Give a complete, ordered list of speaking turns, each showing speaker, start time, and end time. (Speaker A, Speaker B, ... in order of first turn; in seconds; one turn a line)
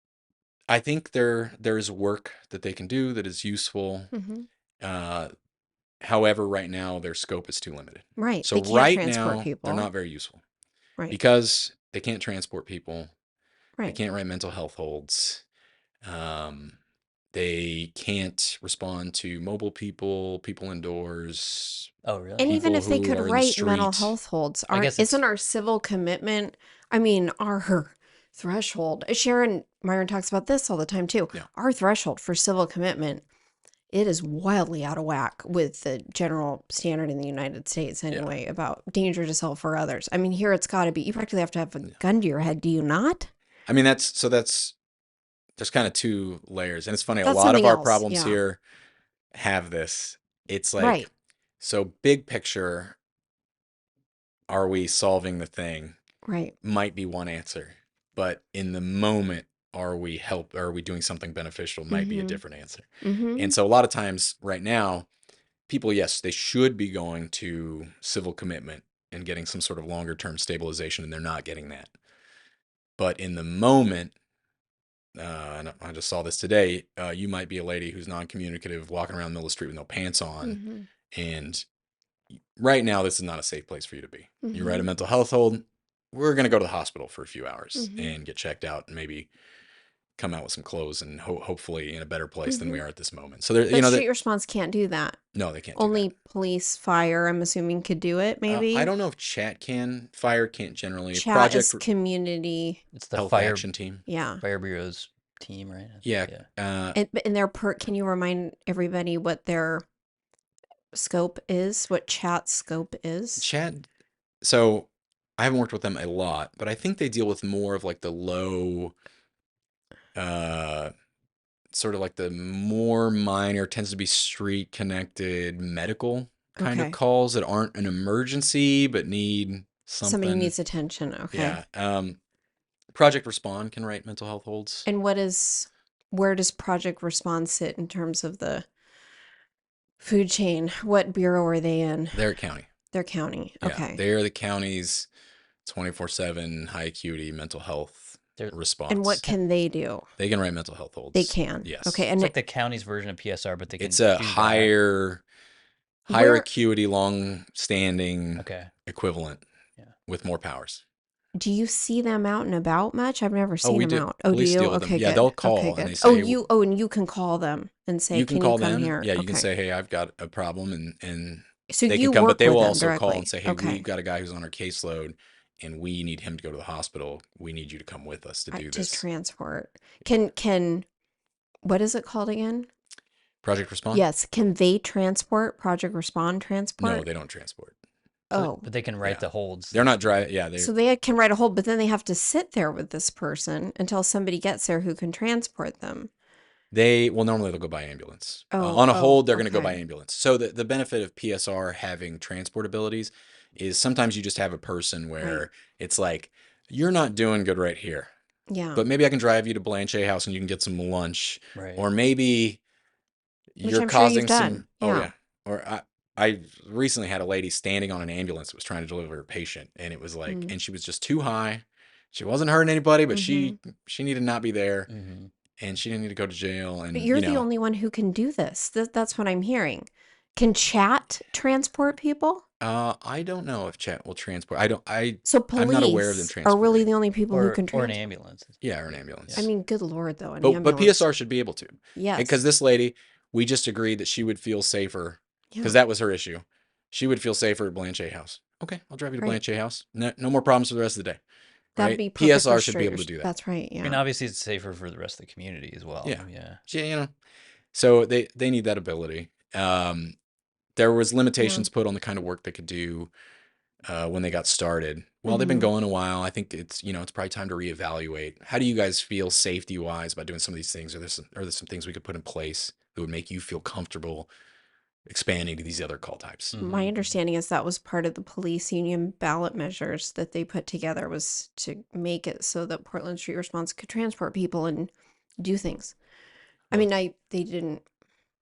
Speaker A: 0.7-4.1
Speaker B: 4.1-4.5
Speaker A: 4.8-5.3
Speaker A: 6.0-10.4
Speaker B: 8.2-9.9
Speaker A: 11.1-13.1
Speaker A: 13.9-15.4
Speaker A: 16.0-16.8
Speaker A: 17.3-21.9
Speaker C: 22.1-22.7
Speaker B: 22.4-33.2
Speaker A: 22.4-24.1
Speaker C: 24.7-25.2
Speaker B: 33.9-43.3
Speaker A: 43.7-44.8
Speaker A: 45.6-48.6
Speaker B: 47.2-48.4
Speaker A: 49.3-51.1
Speaker B: 50.8-51.1
Speaker A: 51.6-53.0
Speaker A: 54.5-56.0
Speaker B: 56.2-56.6
Speaker A: 56.6-65.1
Speaker B: 61.9-62.4
Speaker B: 63.0-63.6
Speaker A: 65.7-71.9
Speaker A: 73.0-74.1
Speaker A: 75.2-80.6
Speaker B: 80.4-80.9
Speaker A: 81.1-81.7
Speaker A: 82.6-89.3
Speaker B: 84.4-84.9
Speaker B: 87.8-88.2
Speaker A: 90.2-94.1
Speaker B: 92.5-92.8
Speaker B: 93.7-95.2
Speaker A: 95.3-96.1
Speaker B: 95.8-98.9
Speaker A: 98.5-101.8
Speaker B: 101.1-102.8
Speaker C: 102.9-103.7
Speaker A: 103.2-104.0
Speaker B: 104.1-104.4
Speaker C: 104.4-106.5
Speaker A: 106.0-107.0
Speaker B: 107.0-109.8
Speaker B: 110.9-113.5
Speaker A: 113.4-113.9
Speaker A: 114.4-119.0
Speaker A: 120.2-120.9
Speaker A: 121.7-130.5
Speaker B: 126.6-127.0
Speaker B: 130.0-131.6
Speaker A: 131.3-132.2
Speaker A: 132.9-134.9
Speaker B: 134.9-138.7
Speaker B: 140.0-142.3
Speaker A: 142.1-142.7
Speaker B: 142.9-144.0
Speaker A: 143.6-145.1
Speaker A: 145.6-149.3
Speaker B: 148.9-150.1
Speaker A: 150.2-152.1
Speaker B: 151.1-152.3
Speaker C: 152.2-154.7
Speaker A: 153.8-155.2
Speaker A: 156.1-159.4
Speaker B: 156.1-156.5
Speaker C: 158.4-158.7
Speaker A: 160.1-160.8
Speaker B: 161.3-169.5
Speaker A: 163.6-166.4
Speaker A: 168.1-179.1
Speaker B: 171.7-173.9
Speaker B: 178.5-180.8
Speaker B: 181.6-182.7
Speaker A: 183.4-184.0
Speaker B: 183.9-187.1
Speaker A: 186.8-187.8
Speaker B: 188.3-188.7
Speaker C: 188.3-190.2
Speaker A: 189.0-190.7
Speaker B: 190.6-196.1
Speaker A: 196.7-208.1
Speaker B: 198.5-199.8
Speaker B: 208.5-208.8
Speaker A: 208.8-212.6
Speaker C: 211.6-211.8
Speaker A: 213.6-224.9
Speaker B: 213.6-215.1
Speaker B: 220.3-220.6
Speaker B: 223.1-223.6
Speaker C: 224.9-225.3
Speaker A: 225.6-227.5
Speaker B: 226.9-232.4
Speaker A: 232.6-236.9
Speaker B: 235.2-238.0
Speaker C: 237.3-238.6
Speaker A: 238.6-239.5
Speaker B: 239.3-241.1
Speaker A: 240.4-251.2
Speaker B: 241.9-242.4
Speaker B: 251.8-254.0
Speaker A: 251.8-253.3
Speaker C: 253.8-256.6
Speaker A: 256.0-257.1
Speaker A: 257.7-260.1
Speaker A: 260.8-263.1
Speaker B: 261.4-261.7
Speaker A: 263.9-274.3
Speaker B: 265.3-265.7
Speaker A: 275.1-276.6
Speaker C: 276.5-277.1
Speaker B: 276.6-285.9
Speaker B: 286.7-287.8